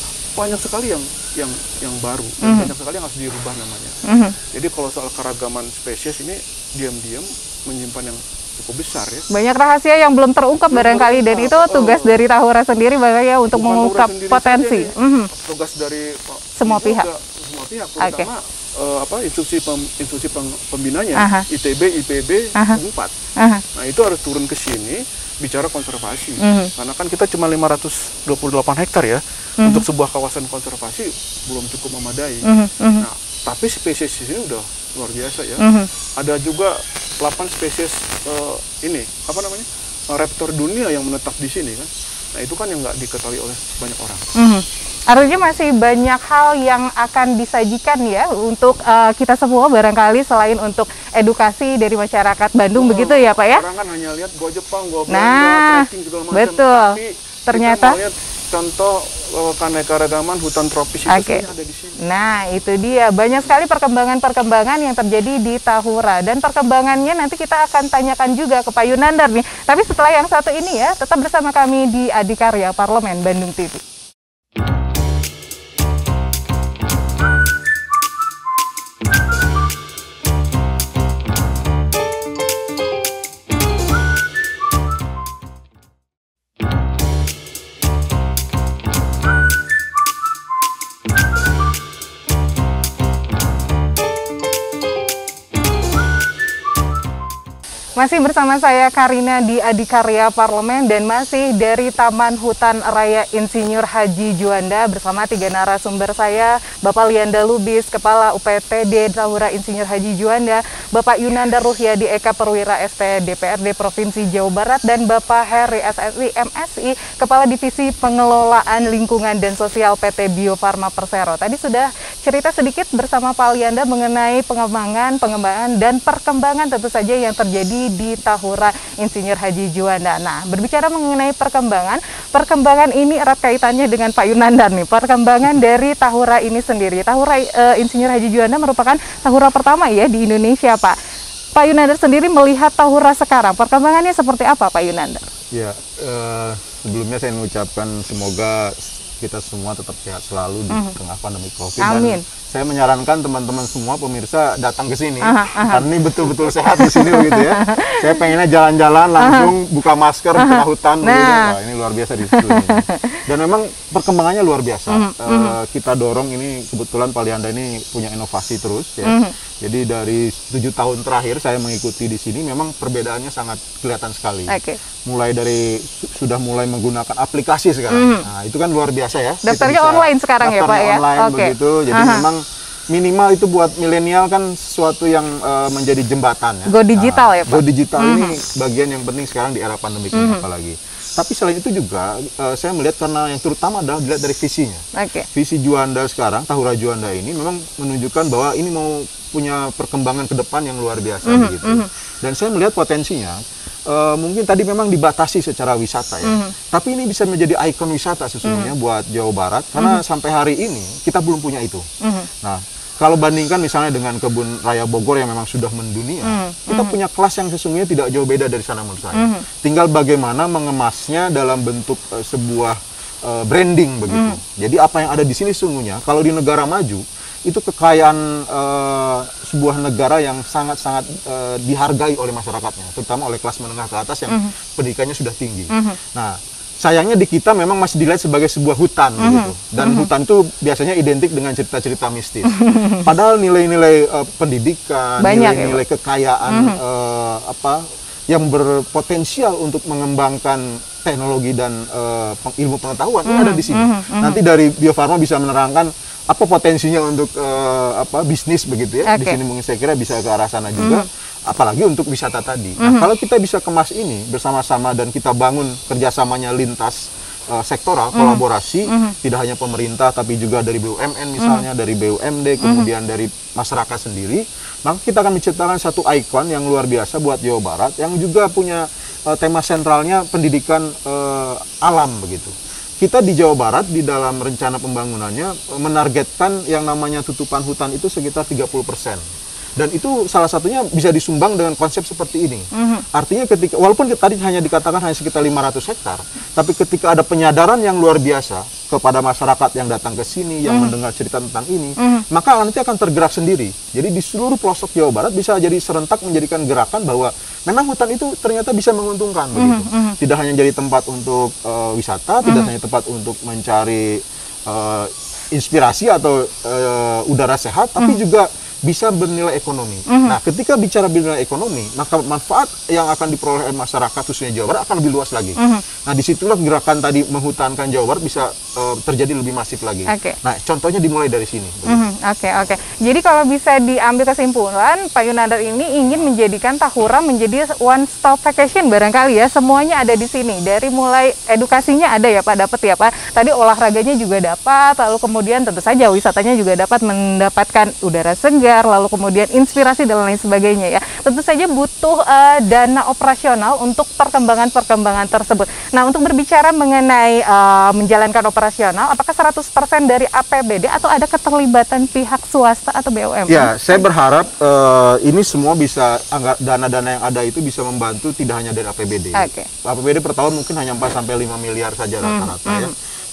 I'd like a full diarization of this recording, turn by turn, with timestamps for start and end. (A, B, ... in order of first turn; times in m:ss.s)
0:00.3-0:04.0 A
0:02.4-0:02.7 B
0:04.0-0:04.4 B
0:04.5-0:09.3 A
0:09.3-0:15.3 B
0:10.7-0:12.2 A
0:13.5-0:23.1 A
0:16.6-0:17.0 B
0:18.0-0:18.3 B
0:21.2-0:21.4 B
0:23.4-0:23.6 B
0:23.7-0:32.4 A
0:26.4-0:26.7 B
0:32.5-0:33.0 B
0:33.0-0:35.6 A
0:35.6-0:35.9 B
0:36.2-0:44.2 A
0:44.4-0:53.6 B
0:52.7-1:02.0 A
0:55.1-0:58.0 B
1:01.1-1:01.4 B
1:02.0-1:13.8 B
1:38.0-2:21.0 B
2:21.5-2:25.2 B
2:25.5-3:14.8 C
2:31.8-2:32.2 B
2:35.2-2:35.8 B
2:36.8-2:38.1 B
2:39.2-2:39.5 B
2:40.4-2:41.5 B
2:42.3-2:43.2 B
2:44.9-2:45.5 B
2:49.0-2:49.3 B
2:54.5-2:54.8 B
2:57.9-2:58.3 B
2:59.4-3:02.2 B
3:06.7-3:08.3 B
3:10.1-3:10.4 B
3:15.0-3:15.3 B
3:15.3-3:31.8 C
3:21.2-3:21.9 B
3:26.2-3:26.5 B
3:28.4-3:28.7 B
3:32.0-3:32.3 B
3:32.4-4:49.2 C
3:36.2-3:36.9 B
3:39.1-3:39.4 B
3:44.1-3:44.4 B
3:55.7-3:56.0 B
3:59.2-4:00.1 B
4:02.5-4:03.1 B
4:05.2-4:05.8 B
4:06.5-4:06.8 B
4:13.3-4:14.4 B
4:19.1-4:19.4 B
4:20.8-4:21.0 B
4:22.8-4:23.0 B
4:28.1-4:29.1 B
4:32.6-4:32.9 B
4:49.8-5:32.0 C
4:52.7-4:53.0 B
5:00.7-5:00.9 B
5:02.0-5:02.2 B
5:09.6-5:10.2 B
5:12.4-5:12.7 B
5:20.1-5:20.4 B
5:25.6-5:25.8 B
5:30.1-5:30.4 B
5:31.8-6:03.7 B
6:03.5-6:12.9 C
6:09.4-6:09.7 B
6:12.2-6:12.9 B